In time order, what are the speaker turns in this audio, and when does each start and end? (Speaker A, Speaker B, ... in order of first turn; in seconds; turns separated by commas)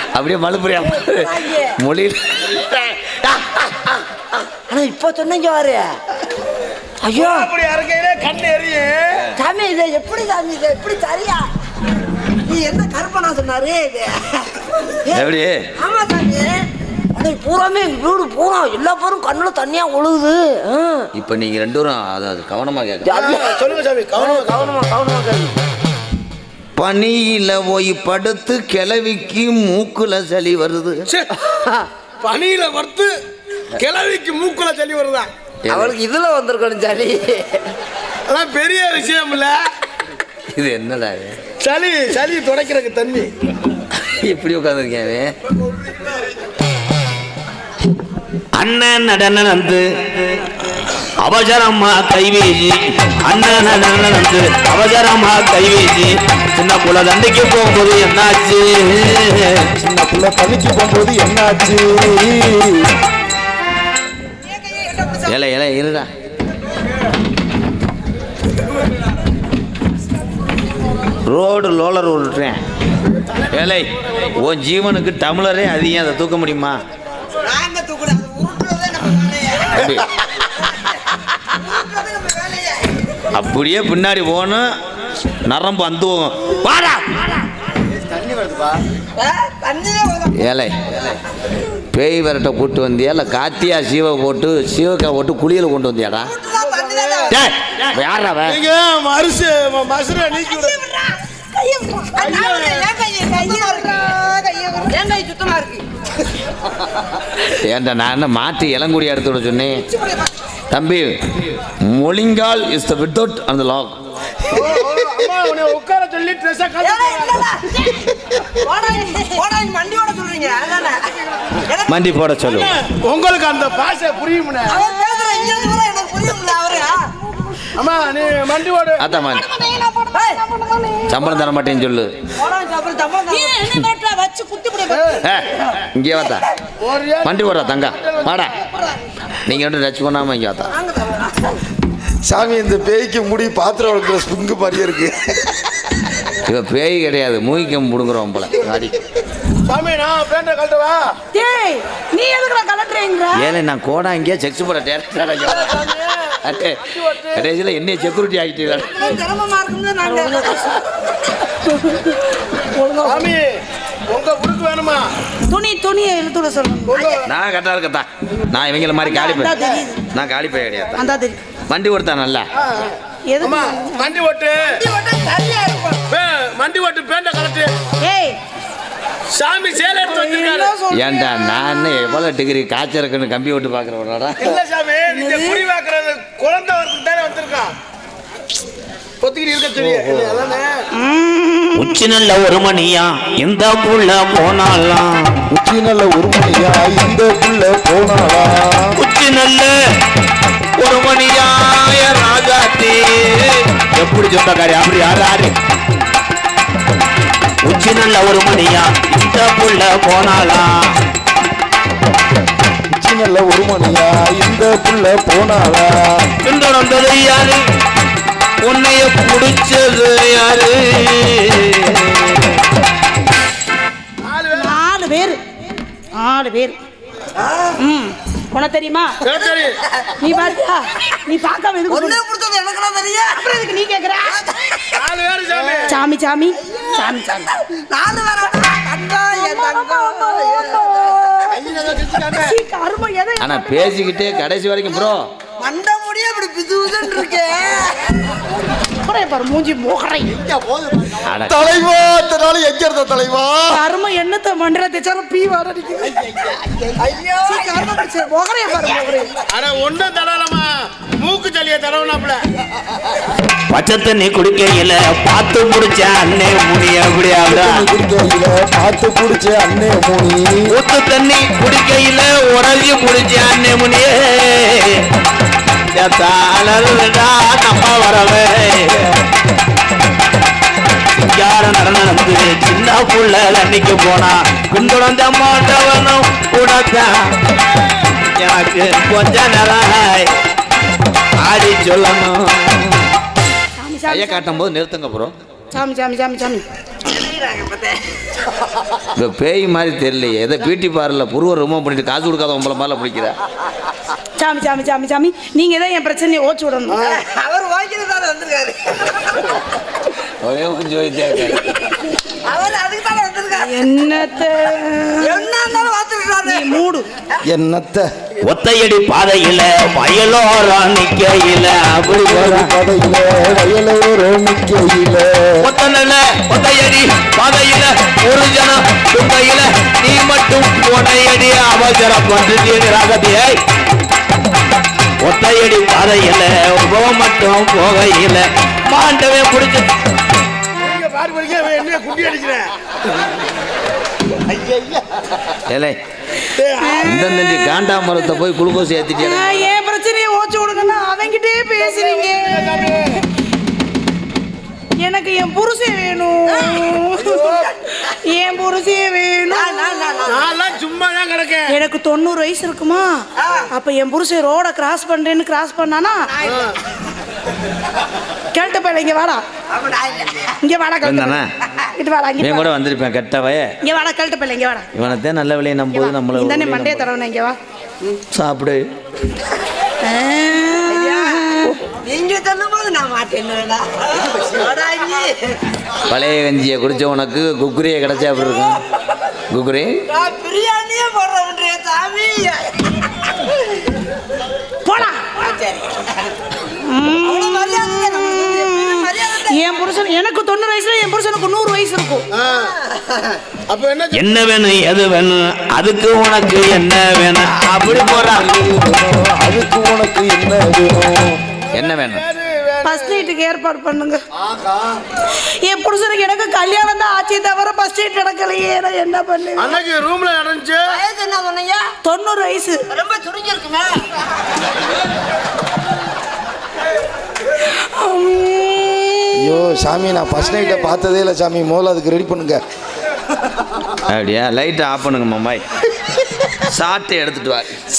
Speaker A: 0.1-3.2, Speaker B: 1.0-1.8, Speaker B: 3.3-6.0, Speaker B: 7.0-7.5, Speaker C: 7.1-9.2, Speaker B: 9.3-11.5, Speaker B: 12.4-21.1, Speaker A: 15.1-15.7, Speaker A: 21.1-23.1, Speaker B: 23.0-23.6, Speaker C: 23.1-24.6, Speaker B: 24.1-25.5, Speaker A: 26.8-31.0, Speaker B: 31.4-31.9, Speaker C: 32.2-33.1, Speaker C: 33.7-35.3, Speaker A: 35.6-35.9, Speaker B: 35.7-37.7, Speaker C: 38.3-39.6, Speaker A: 40.5-41.4, Speaker C: 41.6-43.3, Speaker A: 43.9-45.3, Speaker A: 48.5-49.9, Speaker A: 51.2-59.6, Speaker D: 59.7-63.0, Speaker A: 65.2-66.1, Speaker A: 71.3-72.6, Speaker A: 73.5-76.8, Speaker B: 77.4-79.8, Speaker A: 79.7-80.1, Speaker B: 81.5-82.9, Speaker A: 83.3-84.7, Speaker A: 85.4-87.2, Speaker B: 89.2-90.4, Speaker A: 90.4-90.8, Speaker A: 91.9-96.3, Speaker B: 96.3-97.4, Speaker C: 96.6-97.3, Speaker A: 97.3-98.6, Speaker C: 98.5-100.8, Speaker B: 100.3-105.8, Speaker C: 102.2-102.9, Speaker A: 107.4-109.8, Speaker B: 110.0-110.2, Speaker A: 110.7-111.3, Speaker A: 111.8-114.0, Speaker C: 114.4-117.5, Speaker B: 116.8-121.0, Speaker B: 121.5-122.0, Speaker A: 121.9-122.7, Speaker C: 122.8-124.8, Speaker B: 124.7-127.1, Speaker C: 127.8-129.0, Speaker A: 129.0-129.5, Speaker B: 129.6-130.4, Speaker E: 129.6-131.1, Speaker A: 131.1-132.1, Speaker B: 132.3-133.9, Speaker E: 133.3-135.1, Speaker B: 134.5-135.2, Speaker C: 134.9-135.2, Speaker A: 135.2-136.4, Speaker C: 136.8-138.5, Speaker A: 137.2-138.5, Speaker A: 139.4-140.7, Speaker B: 140.7-141.6, Speaker D: 142.2-145.6, Speaker A: 146.4-148.9, Speaker C: 149.7-151.1, Speaker E: 151.3-153.5, Speaker A: 153.3-158.9, Speaker C: 157.0-157.3, Speaker B: 158.7-161.1, Speaker E: 160.0-160.8, Speaker E: 161.6-163.3, Speaker C: 163.0-165.1, Speaker E: 165.5-167.0, Speaker C: 166.9-167.2, Speaker A: 167.2-169.5, Speaker E: 169.0-170.0, Speaker A: 170.1-171.0, Speaker E: 171.0-171.4, Speaker A: 171.7-172.5, Speaker C: 172.6-174.7, Speaker E: 173.3-174.1, Speaker B: 174.6-176.0, Speaker C: 176.1-177.7, Speaker E: 178.0-178.4, Speaker C: 179.3-180.8, Speaker E: 180.0-182.1, Speaker A: 180.9-184.5, Speaker C: 184.4-187.7, Speaker E: 185.1-185.6, Speaker C: 189.2-190.8, Speaker A: 189.9-190.3, Speaker E: 190.9-191.9, Speaker A: 191.7-195.3, Speaker D: 195.5-199.0, Speaker A: 199.0-199.7, Speaker A: 200.8-205.5, Speaker A: 207.6-210.9, Speaker D: 212.9-216.3, Speaker A: 216.4-217.6, Speaker A: 218.6-222.3, Speaker C: 224.2-224.8, Speaker E: 224.5-225.4, Speaker E: 226.2-226.8, Speaker B: 227.4-227.7, Speaker E: 227.8-229.2, Speaker C: 229.2-229.8, Speaker B: 229.5-230.6, Speaker E: 230.2-232.2, Speaker B: 231.9-233.4, Speaker E: 233.3-234.4, Speaker B: 234.3-235.0, Speaker C: 234.9-236.0, Speaker E: 235.9-237.6, Speaker B: 236.6-241.6, Speaker E: 239.3-241.6, Speaker C: 241.6-242.6, Speaker E: 242.3-243.7, Speaker A: 243.4-245.3, Speaker B: 245.6-248.2, Speaker E: 249.0-250.4, Speaker A: 251.2-251.6, Speaker D: 251.5-253.8, Speaker E: 253.7-256.2, Speaker B: 257.0-257.8, Speaker E: 257.4-259.3, Speaker C: 259.5-262.4, Speaker A: 263.7-267.9, Speaker D: 267.5-270.7, Speaker A: 270.7-274.9, Speaker A: 275.9-279.1, Speaker A: 281.1-287.3, Speaker A: 288.3-290.3, Speaker A: 291.4-293.0, Speaker E: 293.8-294.4, Speaker A: 294.1-295.3, Speaker E: 295.7-296.6, Speaker B: 297.1-298.0, Speaker A: 299.1-303.4, Speaker E: 304.4-307.0, Speaker B: 306.9-309.6, Speaker A: 310.4-311.7, Speaker B: 312.3-313.9, Speaker E: 313.5-315.7, Speaker B: 315.2-316.8, Speaker E: 316.4-317.1, Speaker D: 317.4-318.1, Speaker A: 318.4-322.7, Speaker D: 322.1-325.6, Speaker A: 325.6-333.6, Speaker A: 335.2-339.9, Speaker C: 340.8-342.7, Speaker C: 344.4-345.0, Speaker A: 345.7-346.0, Speaker C: 346.5-347.2, Speaker E: 346.8-347.8, Speaker A: 347.0-349.7, Speaker E: 349.2-353.0, Speaker C: 351.8-353.2, Speaker E: 355.0-357.5, Speaker B: 356.5-356.9, Speaker C: 357.2-357.7, Speaker E: 358.2-360.1, Speaker B: 359.5-360.6, Speaker C: 360.2-361.7, Speaker E: 361.7-363.2, Speaker B: 363.4-363.7, Speaker E: 363.7-366.3, Speaker B: 366.3-366.7, Speaker C: 366.5-366.8, Speaker E: 368.5-369.4, Speaker B: 369.7-370.5, Speaker E: 370.6-371.4, Speaker A: 371.0-371.5, Speaker E: 371.9-372.7, Speaker A: 372.4-373.7, Speaker E: 373.8-374.9, Speaker A: 374.9-377.1, Speaker E: 375.9-377.6, Speaker A: 378.3-378.8, Speaker E: 380.0-381.7, Speaker B: 380.9-385.6, Speaker A: 386.1-388.8, Speaker A: 389.5-390.0, Speaker B: 390.1-393.4, Speaker E: 394.9-395.2, Speaker B: 395.4-396.2, Speaker E: 396.9-402.2, Speaker B: 397.2-399.7, Speaker C: 402.4-402.7, Speaker C: 403.7-404.3, Speaker A: 404.1-408.4, Speaker D: 407.9-411.4, Speaker A: 411.7-412.2, Speaker C: 411.8-413.3, Speaker E: 412.8-414.2, Speaker C: 414.4-415.0, Speaker E: 415.4-419.8, Speaker C: 419.6-421.0, Speaker B: 420.9-421.9, Speaker E: 422.0-422.8, Speaker B: 422.9-424.1, Speaker E: 427.7-429.5, Speaker D: 429.3-432.6, Speaker A: 434.1-435.6, Speaker A: 436.6-437.8